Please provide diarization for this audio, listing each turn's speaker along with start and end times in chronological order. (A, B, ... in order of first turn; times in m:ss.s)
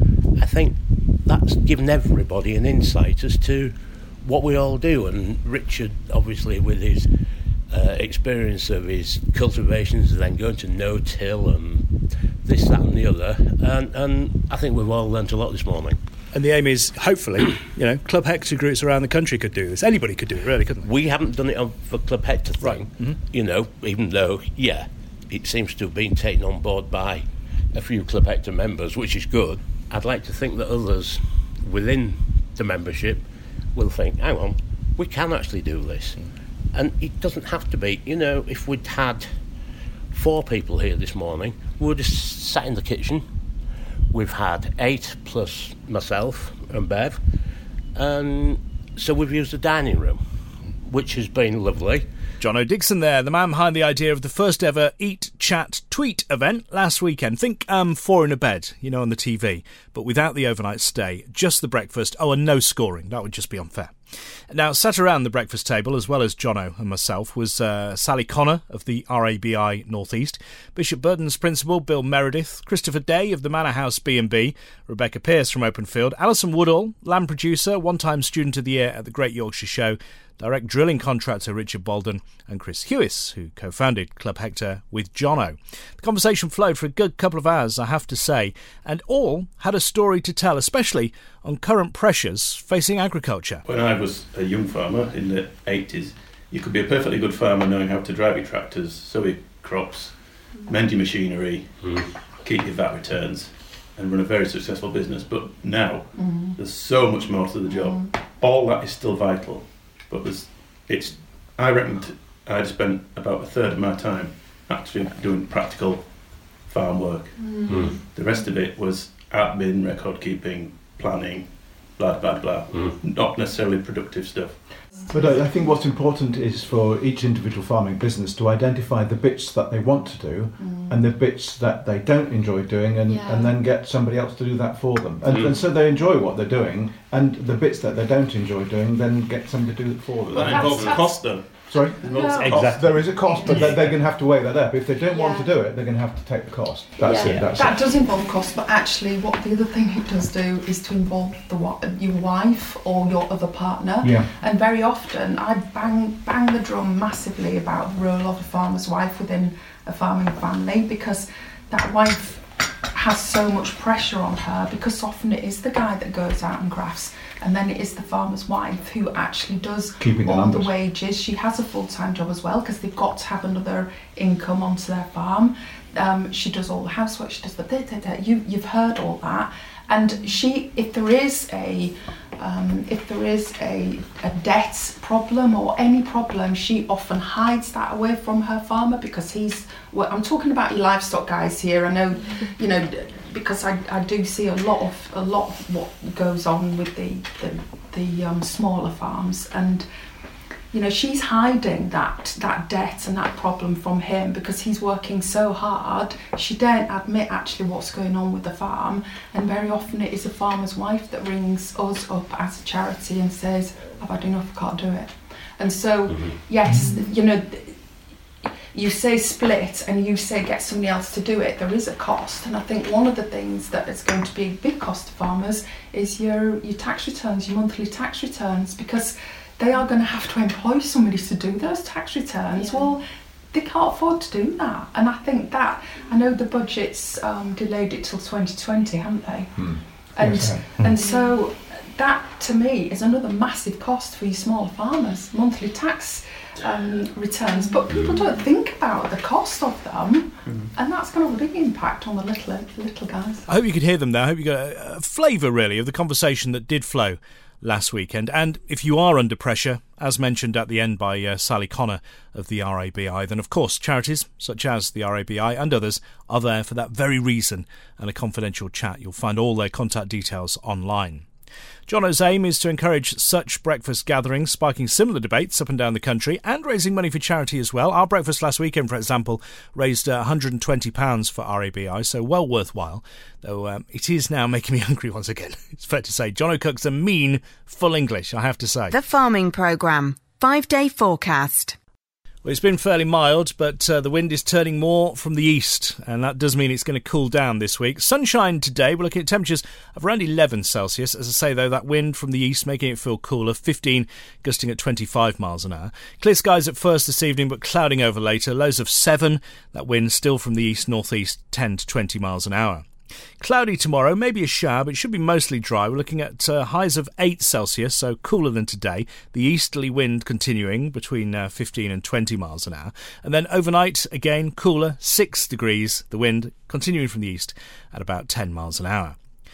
0:00.4-0:07.1 A
0:07.7-0:16.0 A
0:16.3-0:20.9 B
0:20.8-0:36.2 A
0:22.6-0:23.2 B
0:36.7-0:39.4 A
0:40.1-0:43.2 A
0:44.1-0:47.2 A
0:47.9-0:50.2 A
0:50.8-0:52.1 A
0:52.4-1:03.9 C
1:04.5-1:33.6 C
1:33.6-2:04.6 D
1:41.8-1:42.1 A
1:46.1-1:46.6 E
1:57.7-1:58.0 A
2:02.7-2:03.0 A
2:05.0-2:28.0 F
2:10.6-2:10.9 E
2:15.3-2:15.5 D
2:20.2-2:24.0 D
2:22.6-2:22.9 A
2:27.2-2:27.5 D
2:27.3-3:19.9 E
2:34.0-2:34.3 F
2:50.0-2:50.8 F
3:20.7-3:37.8 E
3:36.1-3:36.4 A
3:36.6-3:37.0 F
3:38.7-4:13.5 E
3:59.5-4:01.0 F
4:13.5-4:31.2 C
4:31.9-4:48.9 C
4:48.9-4:51.8 G
4:52.4-5:12.9 C
5:13.4-5:29.2 C